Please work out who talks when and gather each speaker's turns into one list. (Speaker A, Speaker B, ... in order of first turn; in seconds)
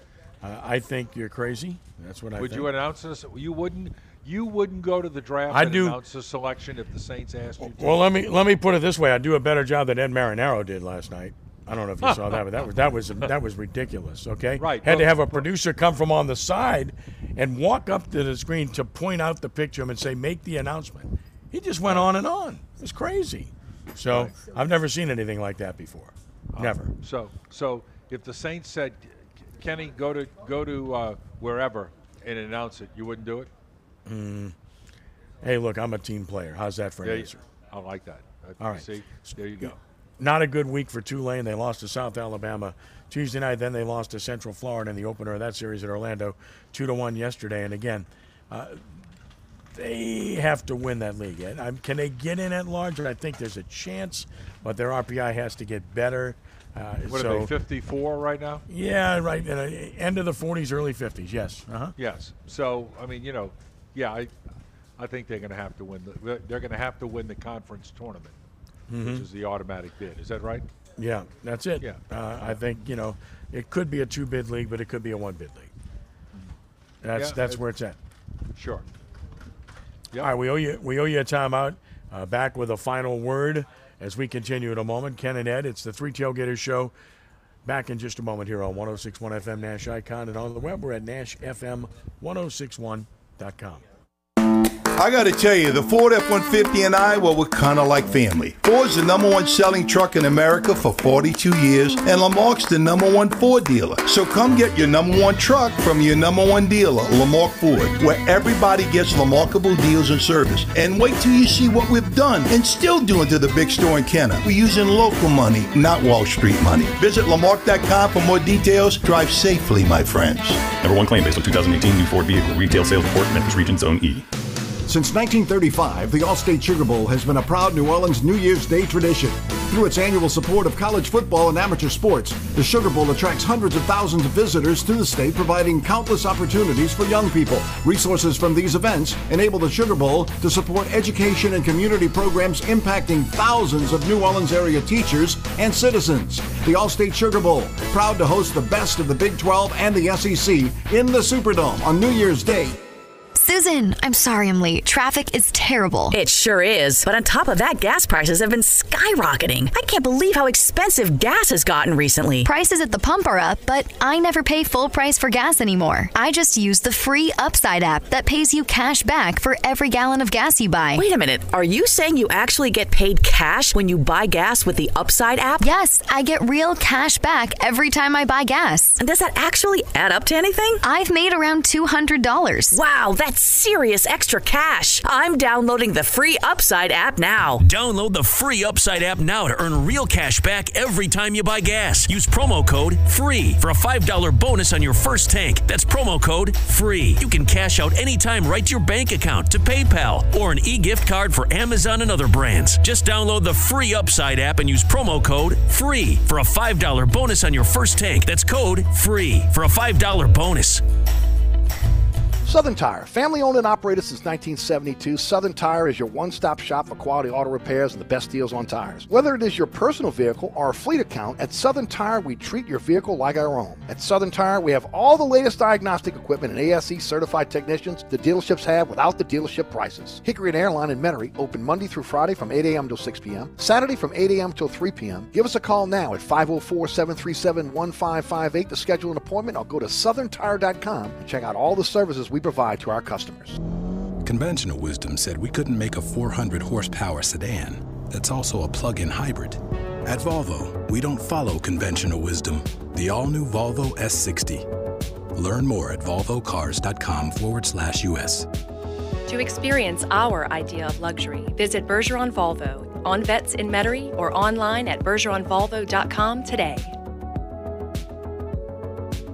Speaker A: 0.4-2.7, 5.5-6.0, 7.6-26.9, 34.1-34.5, 35.4-37.4, 38.6-48.9, 49.7-57.5, 58.7-61.9, 68.9-69.2, 71.0-75.7, 77.0-78.0, 80.2-86.9, 87.7-93.8
Speaker B: 2.4-8.1, 12.0-12.4, 14.6-15.5, 21.9-22.1, 24.1-24.4, 26.5-33.5, 37.0-39.8, 57.1-58.6, 62.0-64.3, 65.0-68.3, 68.9-70.7, 71.8-72.8, 77.2-77.6, 78.5-78.9
Speaker C: 95.0-120.7
Speaker D: 120.8-124.2
Speaker E: 124.9-152.8
Speaker F: 153.3-156.2, 162.4-171.0, 175.6-179.0, 180.8-182.8
Speaker G: 156.1-162.5, 170.9-175.7, 179.0-180.8, 182.7-187.6
Speaker H: 187.6-210.8
Speaker I: 212.4-243.6
Speaker J: 244.2-254.7, 255.3-258.5
Speaker K: 259.3-266.9